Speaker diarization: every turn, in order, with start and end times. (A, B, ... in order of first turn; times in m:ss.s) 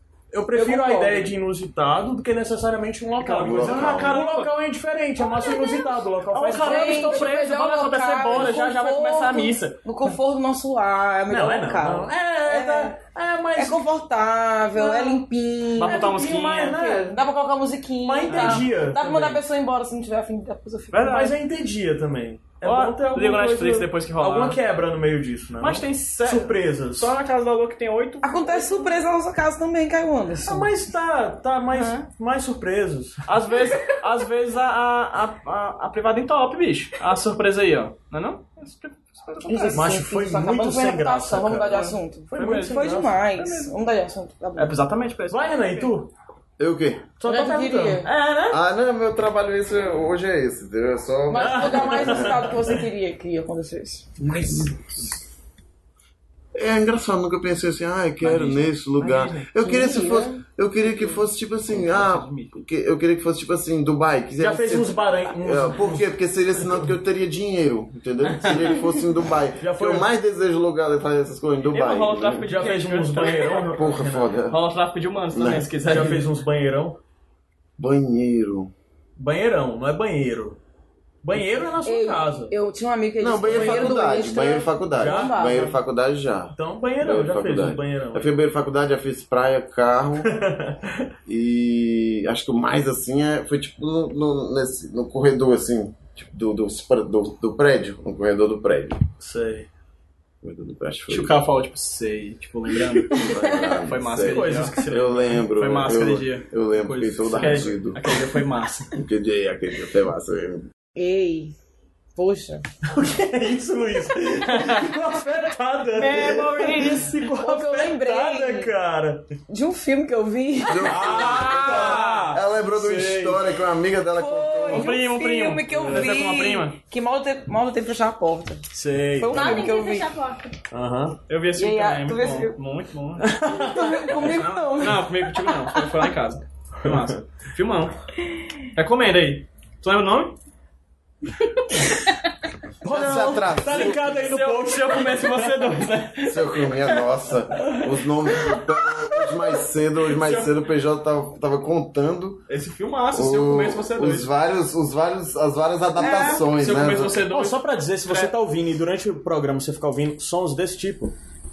0:00.3-0:09.2 A
0:00.5-0:01.3 B
0:03.2-0:04.5 C
0:03.4-0:04.2 D
0:05.2-0:06.0 E
0:06.4-0:09.8 C
0:06.4-0:13.0 B
0:11.3-0:13.9 A
0:13.5-0:16.2 B
0:14.7-0:15.2 A
0:15.8-0:16.8 C
0:15.8-0:17.2 A
0:16.7-0:21.0 B
0:18.0-0:19.4 A
0:18.3-0:18.6 C
0:20.9-0:21.3 C
0:21.0-0:27.1 A
0:22.6-0:24.6 C
0:25.6-0:29.0 C
0:28.2-0:30.7 B
0:30.4-0:33.2 A
0:31.7-0:32.1 C
0:33.3-0:39.9 C
0:39.4-0:44.7 B
0:39.7-0:43.2 A
0:41.8-0:42.8 C
0:43.3-0:43.7 C
0:44.6-0:45.9 C
0:45.3-0:46.1 A
0:46.6-0:47.1 D
0:47.2-0:48.5 A
0:47.2-0:48.1 B
0:48.5-0:52.5 D
0:51.3-0:54.1 B
0:51.3-0:52.8 A
0:54.2-0:54.6 A
0:54.3-0:54.7 D
0:56.5-1:12.5 D
0:58.3-0:59.5 C
0:59.6-1:00.4 B
1:01.7-1:02.5 C
1:04.4-1:06.1 A
1:08.3-1:08.8 C
1:09.6-1:10.1 A
1:11.7-1:13.7 C
1:12.4-1:14.3 A
1:13.7-1:14.6 D
1:14.5-1:16.2 C
1:15.3-1:15.7 D
1:15.8-1:17.0 A
1:17.8-1:18.7 D
1:19.2-1:20.6 A
1:21.2-1:22.5 A
1:21.8-1:25.7 B
1:23.2-1:30.3 D
1:23.5-1:23.8 A
1:24.9-1:25.8 A
1:26.5-1:28.3 A
1:30.2-1:31.1 A
1:31.2-1:39.0 D
1:39.2-1:39.7 A
1:40.4-1:41.4 D
1:41.1-1:48.9 C
1:43.1-1:48.1 D
1:44.2-1:45.1 A
1:47.4-1:47.7 A
1:48.9-1:50.6 D
1:51.0-1:51.5 B
1:52.2-1:52.6 B
1:52.9-1:59.3 A
1:54.5-1:54.9 C
1:55.9-1:57.2 C
1:57.4-1:58.7 B
1:59.5-2:01.8 B
2:00.6-2:05.0 D
2:00.8-2:03.4 A
2:01.7-2:02.0 C
2:04.1-2:08.6 B
2:04.7-2:06.6 C
2:05.7-2:06.7 A
2:08.7-2:09.6 A
2:09.2-2:10.1 B
2:09.3-2:10.6 E
2:10.7-2:11.2 A
2:11.3-2:13.3 C
2:11.6-2:12.5 B
2:13.2-2:14.2 A
2:13.6-2:15.7 B
2:14.2-2:17.9 C
2:16.8-2:17.2 A
2:18.8-2:20.3 C
2:22.8-2:25.9 A
2:22.8-2:24.2 D
2:23.7-2:26.5 C
2:26.2-2:32.4 D
2:30.2-2:30.5 C
2:32.5-2:34.3 C
2:33.1-2:37.2 D
2:36.0-2:38.3 C
2:37.3-2:41.1 A